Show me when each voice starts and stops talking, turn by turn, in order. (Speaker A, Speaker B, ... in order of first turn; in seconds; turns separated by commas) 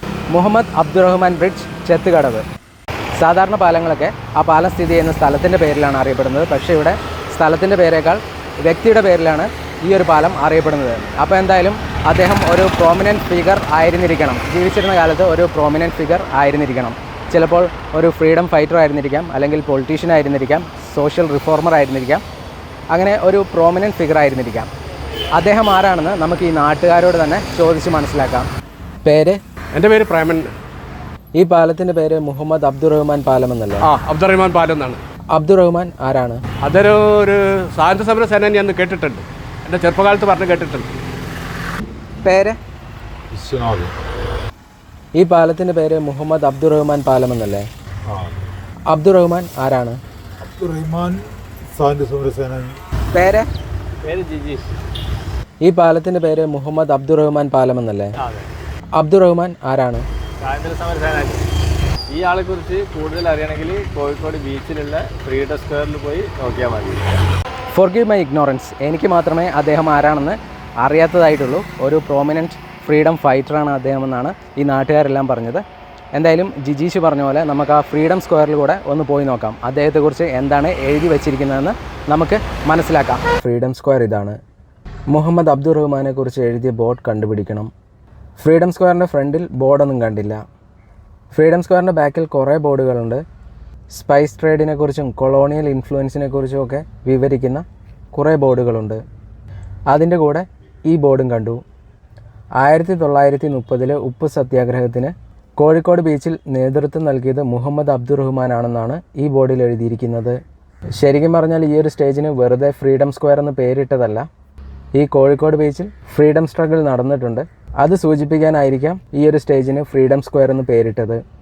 Speaker A: 0.3-2.4, Speaker A: 3.2-22.2, Speaker A: 22.9-24.7, Speaker A: 25.3-28.5, Speaker A: 29.0-29.4, Speaker B: 29.7-30.5, Speaker A: 31.4-33.9, Speaker B: 33.8-35.0, Speaker A: 35.3-36.4, Speaker B: 36.6-40.9, Speaker A: 42.2-42.6, Speaker C: 43.3-43.9, Speaker A: 45.1-47.7, Speaker C: 48.1-48.5, Speaker A: 48.9-50.0, Speaker C: 50.4-52.8, Speaker A: 53.1-53.5, Speaker D: 54.0-54.7, Speaker A: 55.6-58.1, Speaker A: 59.0-60.0, Speaker D: 60.4-61.4, Speaker D: 62.1-67.2, Speaker A: 67.7-75.6, Speaker A: 76.1-84.4, Speaker A: 85.1-87.7, Speaker A: 88.4-90.4, Speaker A: 91.3-93.2, Speaker A: 93.9-99.0, Speaker A: 99.9-101.6, Speaker A: 102.6-110.4, Speaker A: 111.0-114.3, Speaker A: 114.9-121.2